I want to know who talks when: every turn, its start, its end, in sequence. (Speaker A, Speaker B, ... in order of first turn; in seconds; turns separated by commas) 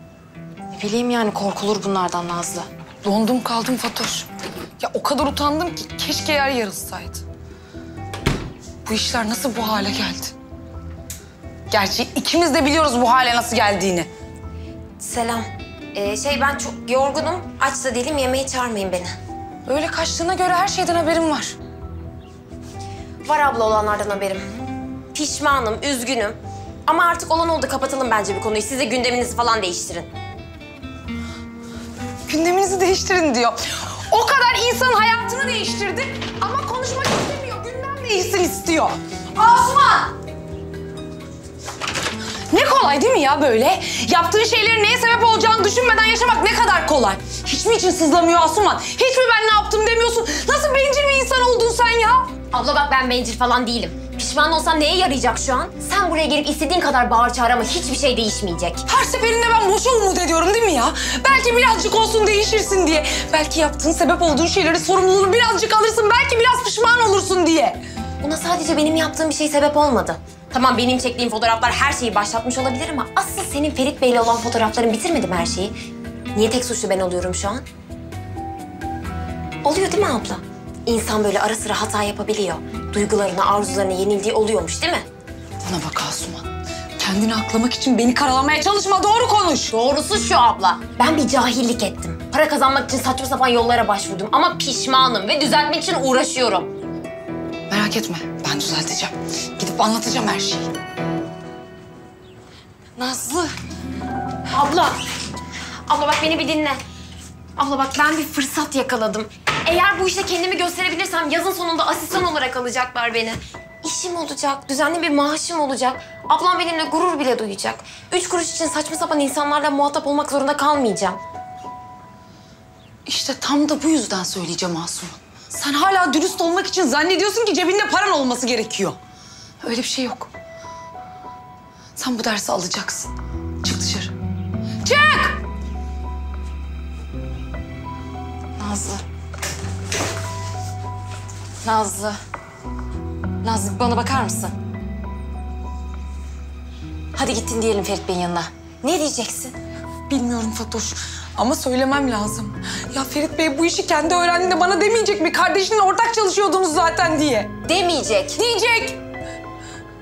Speaker A: 0.7-2.7, Speaker B: 3.0-4.3, Speaker B: 4.8-7.2, Speaker B: 8.8-10.3, Speaker B: 11.7-14.1, Speaker C: 15.0-19.1, Speaker B: 19.7-21.6, Speaker C: 23.2-24.5, Speaker C: 25.1-30.1, Speaker B: 32.3-40.1, Speaker B: 42.5-52.3, Speaker C: 52.5-58.9, Speaker B: 58.9-67.8, Speaker C: 68.2-75.8, Speaker C: 76.3-77.7, Speaker C: 79.6-85.1, Speaker B: 85.6-86.5, Speaker B: 87.0-89.7, Speaker C: 89.7-96.7, Speaker B: 97.7-100.7, Speaker A: 103.0-103.5, Speaker C: 104.5-105.0, Speaker C: 105.9-106.8, Speaker C: 107.6-121.2, Speaker B: 123.1-129.0, Speaker B: 129.6-130.3, Speaker B: 132.0-133.1, Speaker B: 133.6-134.1, Speaker B: 134.8-135.4, Speaker A: 138.6-139.0, Speaker A: 141.6-142.2, Speaker A: 143.4-144.5, Speaker A: 147.1-149.6, Speaker B: 150.1-157.6, Speaker A: 157.7-158.4, Speaker B: 158.3-159.0